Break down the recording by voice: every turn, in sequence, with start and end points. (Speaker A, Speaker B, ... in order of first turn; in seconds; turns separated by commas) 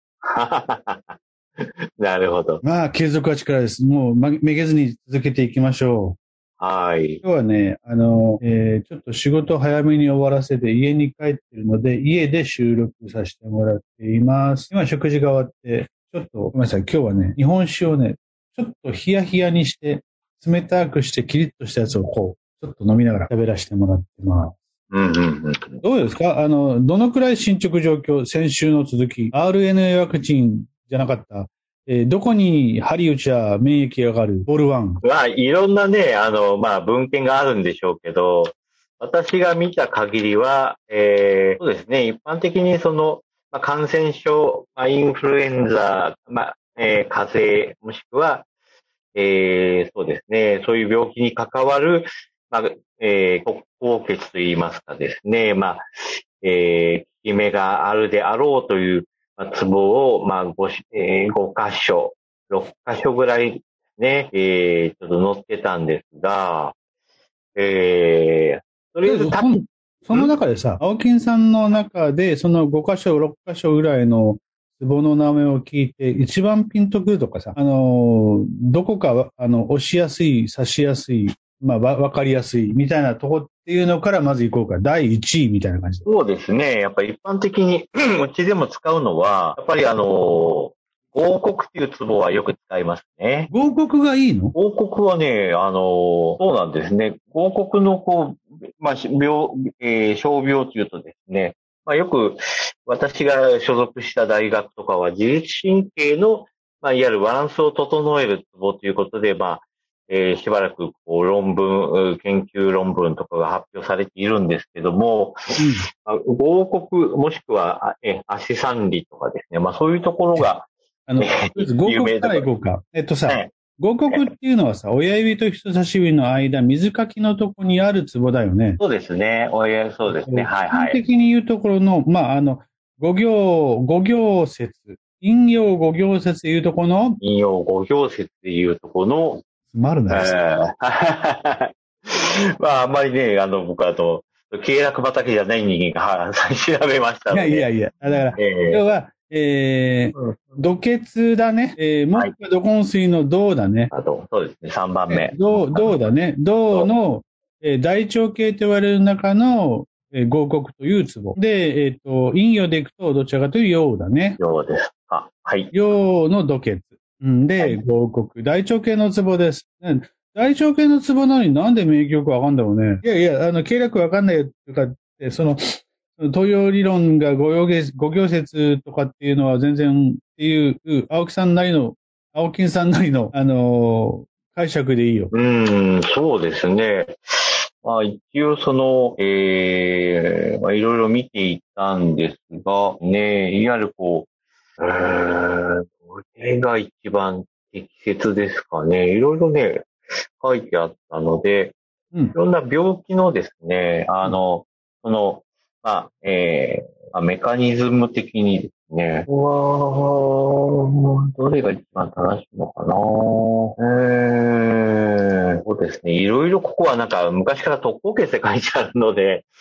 Speaker A: 0.2-2.6, Speaker B: 2.6-6.2, Speaker A: 6.6-7.2, Speaker B: 7.2-24.6, Speaker A: 24.9-25.8, Speaker B: 25.8-35.0, Speaker A: 35.0-48.5, Speaker A: 49.1-66.7, Speaker A: 67.5-70.3, Speaker B: 69.0-86.0, Speaker A: 86.0-93.5, Speaker B: 93.5-94.5, Speaker A: 94.5-120.7, Speaker B: 115.6-115.9, Speaker B: 121.1-128.8, Speaker A: 121.2-122.5, Speaker A: 128.8-131.0, Speaker B: 130.1-137.2, Speaker A: 137.2-139.4, Speaker B: 139.7-140.3, Speaker A: 140.1-147.7, Speaker B: 147.3-153.9, Speaker A: 148.4-148.8, Speaker A: 153.9-155.9, Speaker B: 155.1-164.4, Speaker A: 164.4-165.7, Speaker B: 165.7-185.3, Speaker A: 185.3-194.3, Speaker A: 194.8-201.8, Speaker A: 202.3-219.5